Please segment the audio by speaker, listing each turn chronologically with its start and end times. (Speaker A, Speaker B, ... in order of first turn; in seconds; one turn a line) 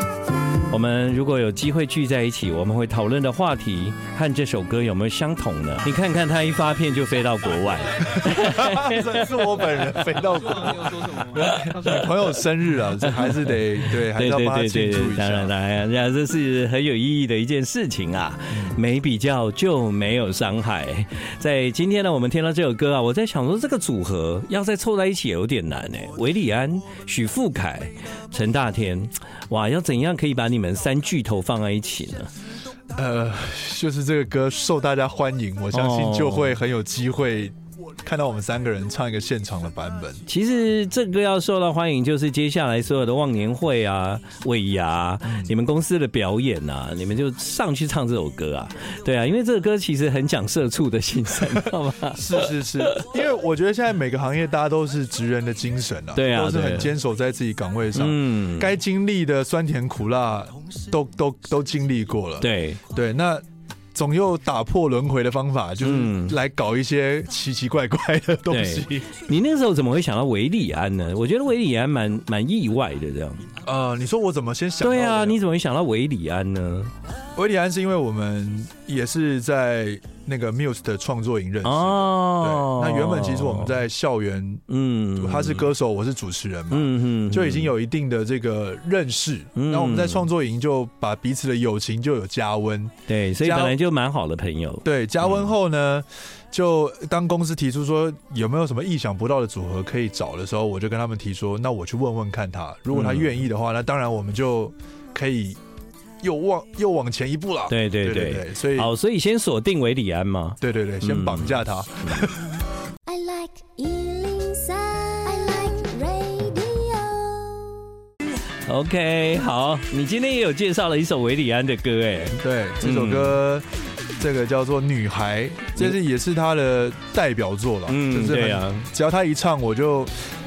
Speaker A: 0.7-10.0
Speaker B: 8.1-15.5
Speaker A: 10.6-12.1
Speaker A: 13.0-32.3
Speaker B: 18.5-18.8
Speaker B: 33.0-40.2
Speaker A: 35.7-36.6
Speaker A: 40.3-53.0
Speaker B: 45.2-45.5
Speaker B: 52.1-63.4
Speaker A: 56.1-56.9
Speaker A: 58.0-58.7
Speaker A: 62.4-62.8
Speaker B: 64.0-69.1
Speaker A: 65.8-66.4
Speaker A: 68.5-73.5
Speaker B: 73.6-75.4
Speaker A: 74.8-76.9
Speaker B: 77.4-84.6
Speaker A: 81.6-83.8
Speaker A: 84.7-85.7
Speaker B: 85.2-93.8
Speaker A: 86.7-87.7
Speaker A: 89.5-90.3
Speaker A: 93.1-95.5
Speaker B: 94.8-105.6
Speaker A: 102.9-103.4
Speaker B: 106.2-108.9
Speaker A: 107.7-112.3
Speaker B: 110.6-112.6
Speaker C: 113.1-117.9
Speaker A: 118.7-123.4
Speaker B: 122.4-123.7
Speaker B: 124.2-130.1
Speaker A: 127.9-128.9